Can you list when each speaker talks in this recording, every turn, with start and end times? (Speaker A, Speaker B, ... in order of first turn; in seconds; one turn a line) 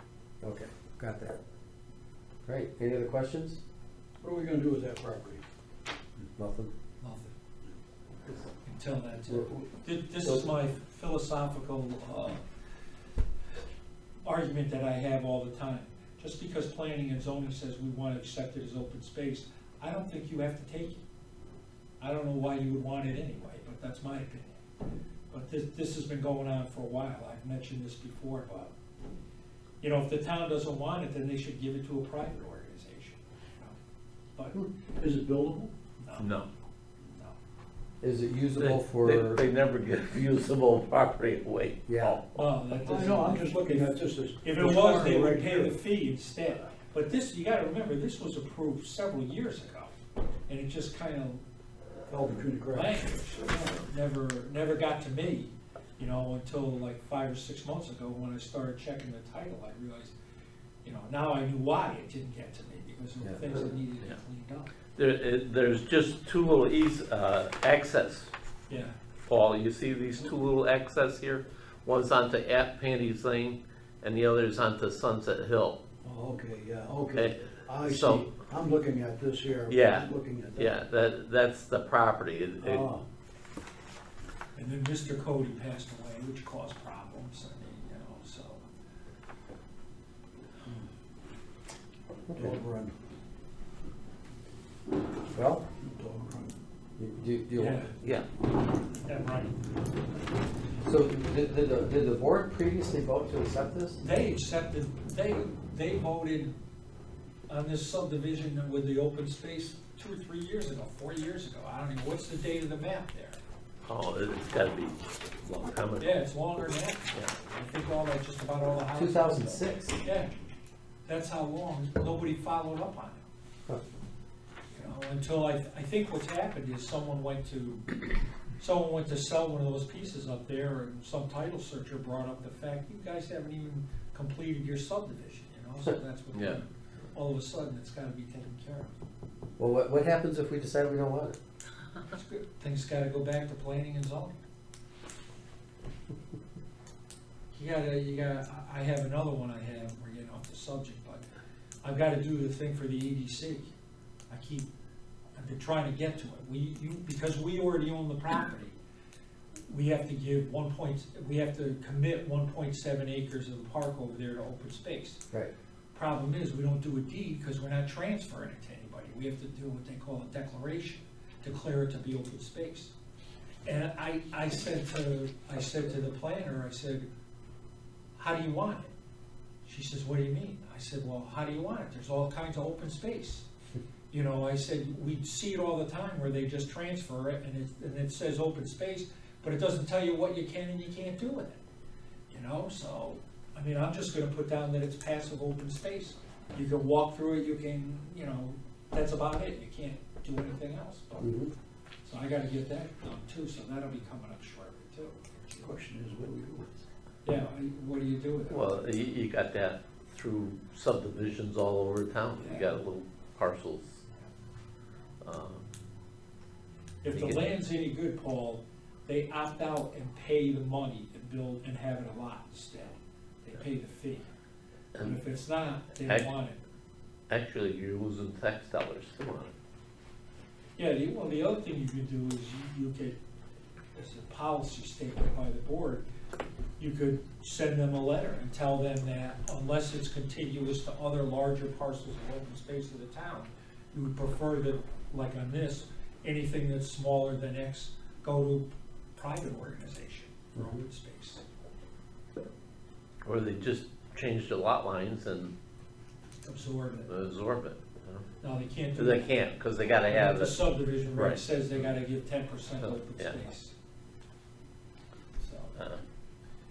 Speaker A: 0.4-1.4
Speaker A: 2.5-3.6
Speaker B: 4.2-5.4
Speaker A: 6.3-6.7
Speaker C: 7.0-7.3
Speaker C: 8.5-12.4
Speaker A: 9.3-9.7
Speaker C: 14.2-21.0
Speaker C: 22.0-24.6
Speaker C: 25.3-28.8
Speaker C: 29.8-33.8
Speaker C: 34.4-34.7
Speaker B: 35.0-35.7
Speaker C: 36.0-36.3
Speaker D: 36.2-36.5
Speaker C: 37.0-37.4
Speaker A: 38.0-39.4
Speaker D: 38.6-42.4
Speaker A: 41.9-42.2
Speaker C: 42.4-49.9
Speaker B: 42.9-45.8
Speaker C: 50.5-51.4
Speaker B: 52.1-53.1
Speaker C: 52.7-60.1
Speaker C: 60.8-64.7
Speaker A: 63.2-63.6
Speaker D: 65.0-68.3
Speaker C: 68.7-69.0
Speaker D: 69.3-75.8
Speaker B: 76.0-80.7
Speaker D: 77.1-78.3
Speaker D: 79.7-82.9
Speaker B: 82.6-83.0
Speaker C: 84.6-88.7
Speaker B: 92.3-93.0
Speaker A: 95.3-95.6
Speaker B: 95.8-96.5
Speaker A: 97.0-97.9
Speaker C: 97.6-97.9
Speaker C: 99.0-99.5
Speaker A: 100.8-104.0
Speaker C: 104.0-106.5
Speaker C: 107.5-113.4
Speaker D: 113.8-116.2
Speaker C: 116.0-120.3
Speaker A: 118.9-120.0
Speaker C: 121.1-123.3
Speaker C: 124.7-127.9
Speaker C: 128.6-138.9
Speaker D: 136.3-136.6
Speaker A: 139.6-141.4
Speaker C: 142.1-144.4
Speaker C: 147.5-151.3
Speaker C: 151.8-153.7
Speaker C: 154.3-154.7
Speaker C: 155.3-158.8
Speaker C: 159.7-165.2
Speaker C: 165.9-172.9
Speaker C: 173.7-177.1
Speaker C: 178.2-178.9
Speaker C: 179.7-183.5
Speaker C: 184.1-191.6
Speaker C: 192.3-201.3
Speaker A: 201.2-201.5
Speaker C: 202.0-205.7
Speaker B: 205.6-206.8
Speaker C: 207.2-208.8
Speaker D: 208.5-214.0
Speaker C: 212.4-212.7
Speaker D: 215.2-215.6
Speaker C: 217.0-224.3
Speaker D: 217.1-217.5
Speaker C: 225.0-226.6
Speaker D: 227.3-229.5
Speaker C: 230.8-233.2
Speaker C: 233.9-236.1
Speaker C: 236.8-251.4
Speaker A: 250.6-250.8
Speaker D: 253.2-255.5
Speaker C: 256.4-257.1
Speaker D: 257.1-258.3
Speaker C: 258.4-259.3
Speaker D: 258.9-261.4
Speaker C: 260.1-263.7
Speaker D: 262.8-263.4
Speaker C: 265.4-265.8